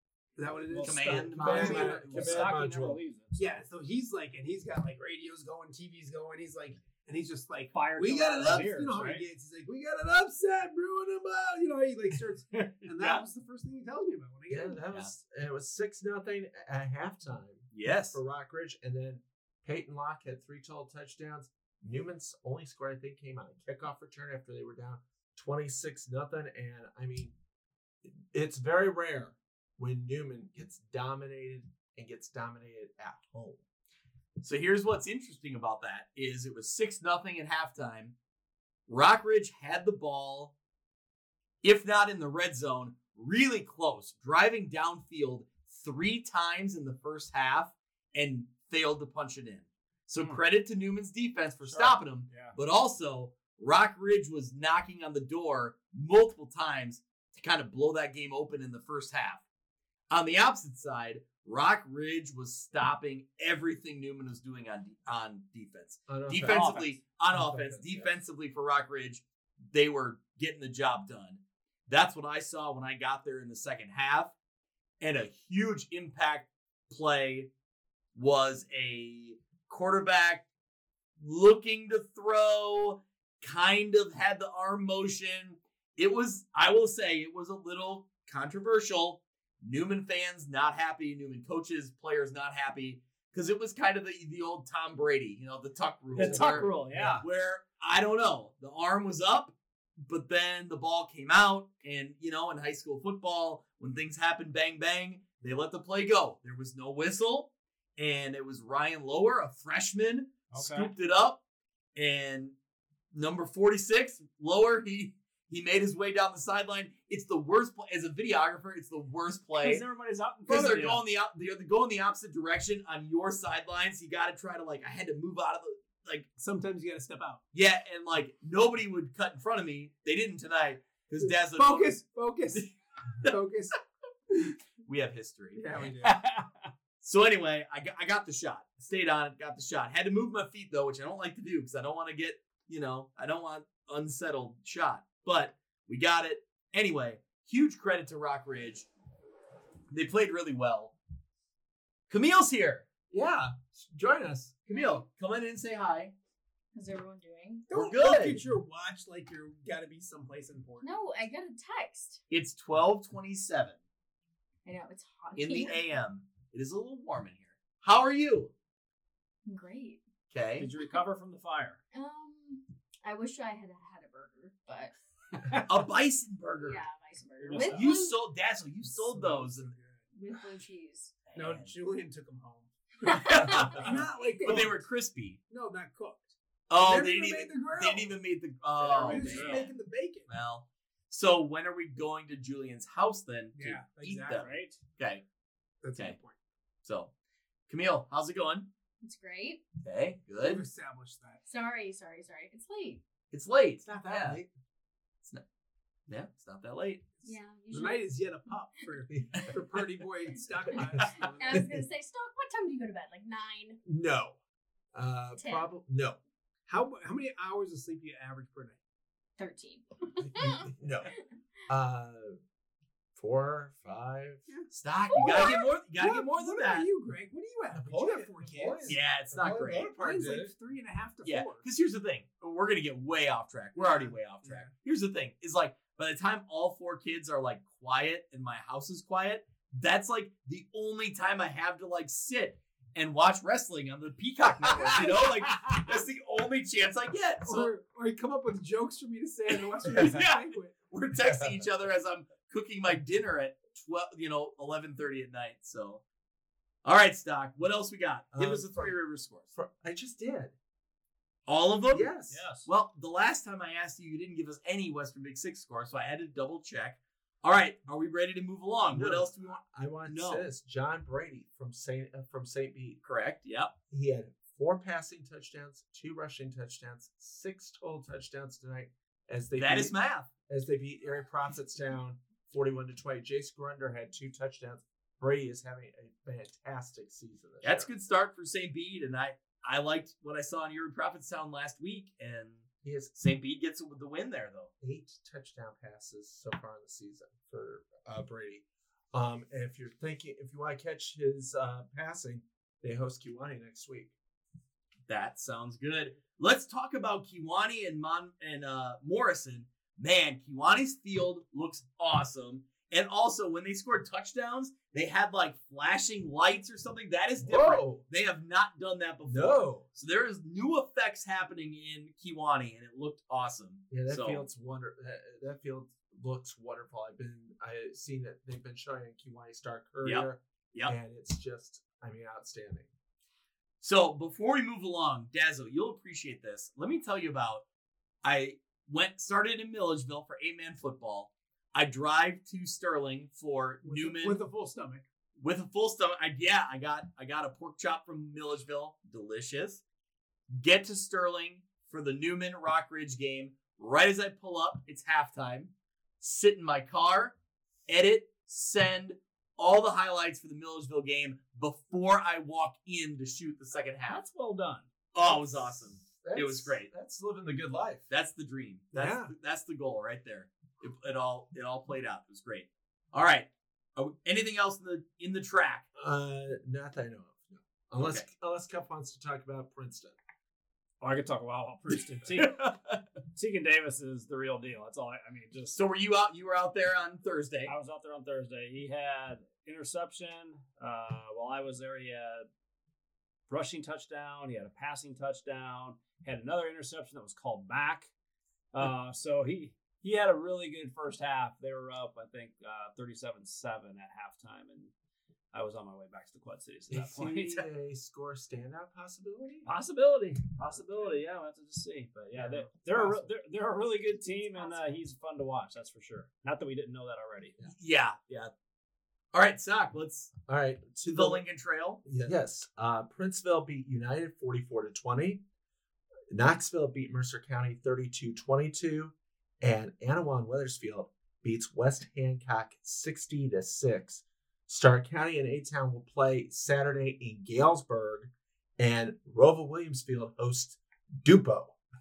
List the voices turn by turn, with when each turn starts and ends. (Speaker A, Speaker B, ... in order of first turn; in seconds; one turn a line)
Speaker A: 0.3-2.5
Speaker B: 0.7-3.6
Speaker C: 0.8-2.3
Speaker D: 1.2-3.0
Speaker A: 3.4-14.8
Speaker B: 7.7-9.2
Speaker C: 13.0-13.2
Speaker D: 14.5-27.3
Speaker C: 17.7-18.2
Speaker D: 28.0-33.6
Speaker C: 34.4-38.1
Speaker C: 38.9-40.5
Speaker C: 41.6-59.4
Speaker B: 51.6-52.5
Speaker C: 60.1-74.3
Speaker D: 66.1-68.2
Speaker B: 66.5-66.9
Speaker C: 75.0-77.5
Speaker C: 78.1-80.4
Speaker C: 81.2-111.4
Speaker B: 96.1-97.2
Speaker D: 96.2-97.2
Speaker B: 110.5-110.9
Speaker C: 111.9-112.5
Speaker C: 113.1-119.8
Speaker B: 119.6-121.0
Speaker C: 120.5-126.3
Speaker A: 126.4-127.4
Speaker C: 127.5-132.0
Speaker A: 131.2-132.7
Speaker C: 132.5-133.3
Speaker A: 133.2-133.8
Speaker A: 134.3-134.6
Speaker C: 134.8-135.6
Speaker A: 135.5-136.2
Speaker B: 136.0-136.7
Speaker C: 137.0-148.9
Speaker C: 149.9-150.9
Speaker C: 152.1-152.9
Speaker D: 153.1-154.6
Speaker C: 154.7-156.1
Speaker E: 154.7-155.0
Speaker E: 156.7-157.7
Speaker A: 157.7-160.9
Speaker C: 157.7-158.4
Speaker E: 160.8-162.2
Speaker C: 162.3-163.8
Speaker E: 164.6-165.8
Speaker C: 165.3-168.5
Speaker E: 169.4-170.0
Speaker C: 170.3-170.7
Speaker B: 170.6-171.8
Speaker E: 171.9-174.9
Speaker C: 175.6-176.8
Speaker E: 176.6-178.2
Speaker B: 177.4-177.9
Speaker C: 177.5-179.7
Speaker A: 178.9-180.0
Speaker E: 180.1-181.2
Speaker C: 181.2-181.7
Speaker A: 181.3-182.7
Speaker E: 183.0-184.6
Speaker C: 183.0-185.4
Speaker A: 183.6-184.8
Speaker A: 185.5-188.2
Speaker C: 186.7-189.7
Speaker A: 188.8-190.3
Speaker B: 189.0-189.7
Speaker C: 190.3-195.2
Speaker A: 193.5-194.5
Speaker B: 194.4-194.8
Speaker A: 195.8-196.3
Speaker C: 196.8-197.1
Speaker C: 197.7-198.7
Speaker E: 199.0-199.6
Speaker C: 199.8-200.6
Speaker A: 200.4-201.4
Speaker E: 201.4-203.0
Speaker C: 203.3-204.4
Speaker D: 203.8-204.5
Speaker C: 206.1-207.0
Speaker E: 207.2-208.1
Speaker A: 207.7-211.7
Speaker D: 209.1-209.6
Speaker E: 210.7-213.8
Speaker D: 210.8-211.8
Speaker D: 213.8-214.4
Speaker D: 214.9-216.2
Speaker E: 215.3-215.7
Speaker A: 216.7-218.8
Speaker E: 219.4-221.2
Speaker D: 220.2-221.1
Speaker D: 221.7-222.4
Speaker D: 223.1-224.5
Speaker C: 224.7-226.9
Speaker E: 225.1-225.7
Speaker A: 225.4-231.7
Speaker D: 227.7-230.5
Speaker C: 228.8-229.9
Speaker C: 231.2-247.7
Speaker A: 233.7-234.7
Speaker D: 244.7-245.0
Speaker B: 245.4-245.8
Speaker A: 247.4-250.8
Speaker C: 249.8-256.0
Speaker D: 251.2-251.6
Speaker C: 256.8-259.5
Speaker D: 258.3-258.9
Speaker D: 259.5-260.5
Speaker C: 261.4-262.1
Speaker D: 261.9-262.4
Speaker B: 262.3-262.7
Speaker C: 262.6-270.4
Speaker D: 268.9-273.0
Speaker C: 273.0-273.7
Speaker D: 273.9-279.9
Speaker C: 279.6-280.3
Speaker D: 280.5-287.9
Speaker C: 287.6-294.7
Speaker D: 292.8-293.1
Speaker D: 294.8-304.1
Speaker C: 305.1-324.4
Speaker D: 317.4-318.0
Speaker D: 319.2-319.8
Speaker D: 323.9-332.9
Speaker C: 330.0-330.9
Speaker C: 333.8-337.6
Speaker C: 338.2-344.4
Speaker A: 343.8-345.0
Speaker C: 345.4-349.8
Speaker C: 350.5-357.3
Speaker C: 357.9-364.2
Speaker B: 364.1-364.9
Speaker C: 365.1-366.9
Speaker D: 365.2-368.1
Speaker C: 368.1-375.8
Speaker A: 368.9-369.3
Speaker D: 375.9-380.1
Speaker C: 378.0-378.2
Speaker B: 381.0-382.6
Speaker C: 382.3-383.0
Speaker B: 383.3-385.8
Speaker C: 385.7-387.7
Speaker B: 387.6-392.4
Speaker B: 393.5-398.1
Speaker B: 398.7-404.9
Speaker B: 405.5-407.7
Speaker D: 406.9-409.7
Speaker B: 409.6-417.6
Speaker D: 412.4-413.2
Speaker E: 414.3-415.0
Speaker C: 417.7-418.5
Speaker C: 419.3-420.3
Speaker D: 420.5-421.4
Speaker C: 421.1-422.0
Speaker D: 422.0-425.4
Speaker D: 426.3-441.8